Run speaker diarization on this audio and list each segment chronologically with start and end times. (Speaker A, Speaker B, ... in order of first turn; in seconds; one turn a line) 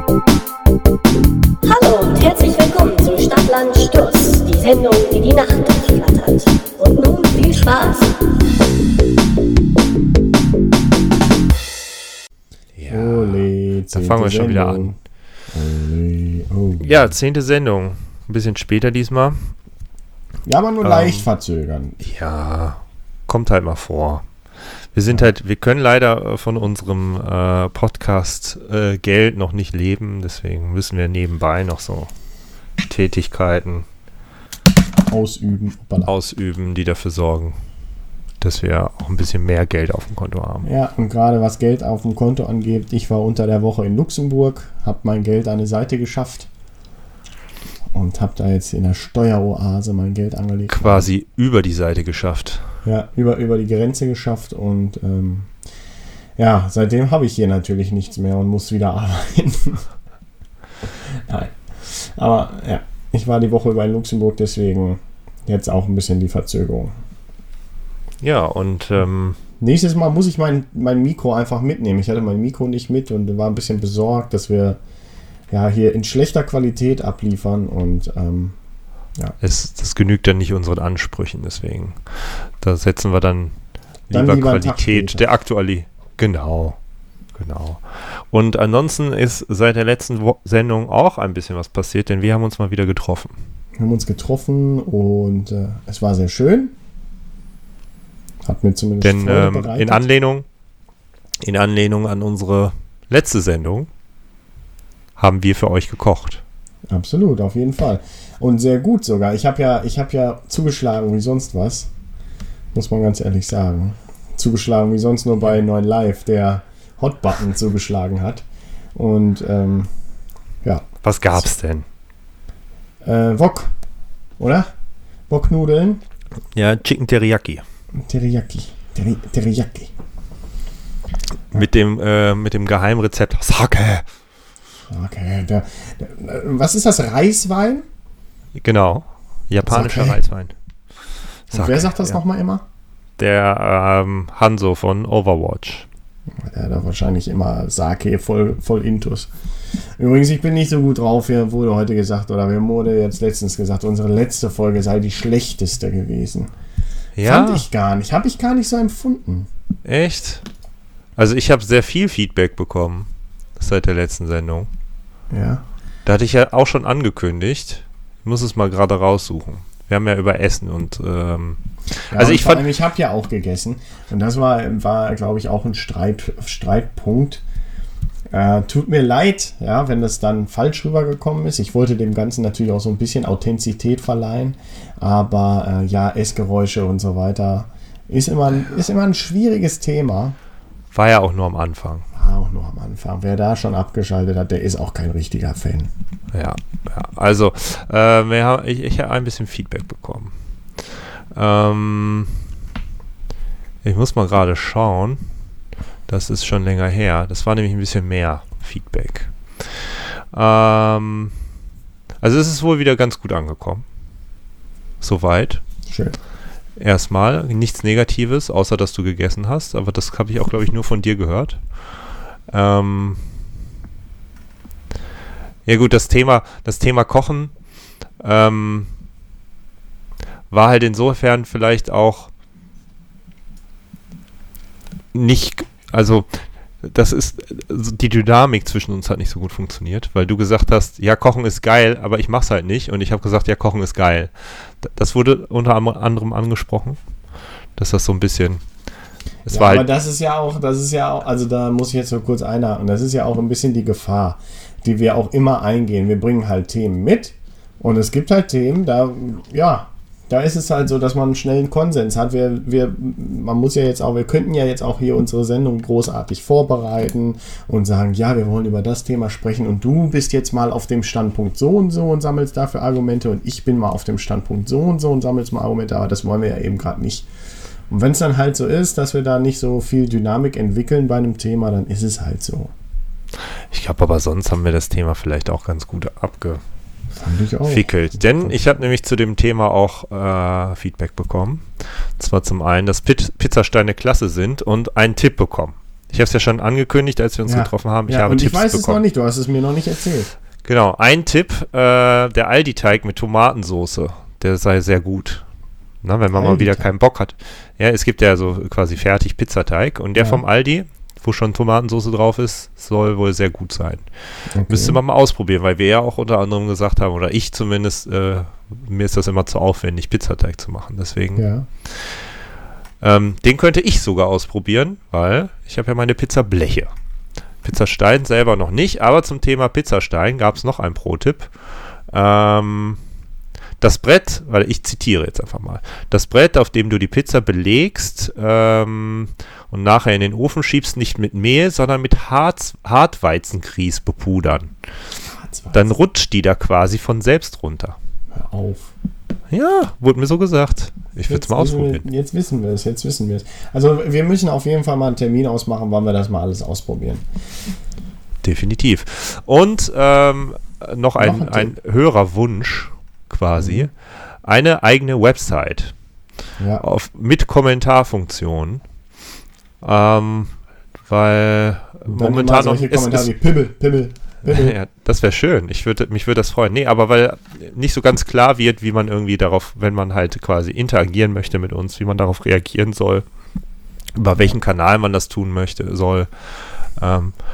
Speaker A: 1.6-8.2
Speaker B: 12.8-14.9
Speaker C: 12.9-14.9
Speaker C: 15.5-17.1
Speaker B: 16.8-19.5
Speaker C: 20.5-22.0
Speaker B: 20.8-21.3
Speaker B: 22.0-24.2
Speaker B: 24.9-32.1
Speaker B: 32.8-33.9
Speaker C: 35.1-36.1
Speaker B: 36.0-37.6
Speaker B: 38.4-40.7
Speaker C: 40.6-46.5
Speaker C: 47.9-51.1
Speaker B: 50.7-52.7
Speaker C: 52.9-55.5
Speaker C: 56.4-59.8
Speaker C: 61.3-66.9
Speaker B: 68.2-69.4
Speaker C: 69.6-74.8
Speaker C: 75.5-78.5
Speaker B: 79.4-82.0
Speaker B: 82.6-83.5
Speaker B: 84.1-86.8
Speaker C: 84.1-85.2
Speaker B: 87.4-93.3
Speaker C: 93.8-96.7
Speaker C: 98.4-100.0
Speaker B: 99.0-100.5
Speaker B: 101.4-103.9
Speaker B: 105.2-106.4
Speaker C: 106.9-111.9
Speaker C: 112.7-118.4
Speaker C: 119.0-119.9
Speaker B: 121.0-121.8
Speaker C: 123.0-123.7
Speaker C: 124.4-124.7
Speaker C: 125.3-126.0
Speaker B: 126.6-127.6
Speaker C: 128.0-129.9
Speaker B: 131.5-134.1
Speaker C: 134.9-137.9
Speaker B: 138.6-140.5
Speaker C: 139.7-140.2
Speaker C: 141.5-142.6
Speaker B: 141.5-142.2
Speaker B: 143.2-145.9
Speaker C: 146.4-149.3
Speaker C: 150.0-156.5
Speaker B: 157.2-157.7
Speaker C: 157.2-159.5
Speaker B: 159.9-160.4
Speaker B: 161.2-164.7
Speaker C: 165.3-165.6
Speaker B: 166.1-172.7
Speaker C: 172.1-177.4
Speaker C: 178.3-190.4
Speaker B: 190.9-192.1
Speaker C: 192.2-195.9
Speaker B: 196.3-200.3
Speaker B: 201.3-202.4
Speaker B: 203.8-205.2
Speaker B: 206.1-211.3
Speaker B: 212.2-213.8
Speaker B: 215.0-215.6
Speaker C: 215.9-216.2
Speaker B: 216.8-221.6
Speaker B: 222.5-223.2
Speaker B: 225.7-227.5
Speaker B: 228.2-228.9
Speaker B: 230.5-232.3
Speaker B: 235.1-236.3
Speaker B: 236.8-244.3
Speaker B: 244.8-247.0
Speaker B: 247.8-248.6
Speaker B: 249.4-249.8
Speaker C: 249.5-277.3
Speaker C: 277.9-282.7
Speaker B: 283.7-286.6
Speaker C: 287.2-287.9
Speaker B: 287.7-291.6
Speaker B: 292.2-299.0
Speaker C: 297.5-300.3
Speaker B: 300.6-305.4
Speaker B: 306.0-314.1
Speaker C: 306.4-306.9
Speaker C: 310.2-310.4
Speaker C: 314.5-315.0
Speaker B: 314.6-322.1
Speaker C: 321.4-321.7
Speaker B: 323.0-326.9
Speaker B: 327.6-331.5
Speaker B: 332.1-333.0
Speaker B: 333.8-344.7
Speaker C: 345.3-345.9
Speaker B: 345.7-348.0
Speaker C: 348.3-348.9
Speaker B: 349.5-352.1
Speaker C: 351.3-357.2
Speaker B: 358.4-363.9
Speaker C: 361.2-361.7
Speaker C: 363.6-363.9
Speaker B: 364.4-365.9
Speaker C: 366.6-366.8
Speaker B: 366.8-368.8
Speaker B: 369.8-370.5
Speaker B: 371.1-373.3
Speaker C: 372.1-374.8
Speaker B: 374.4-383.2
Speaker B: 384.2-386.3
Speaker B: 387.0-387.3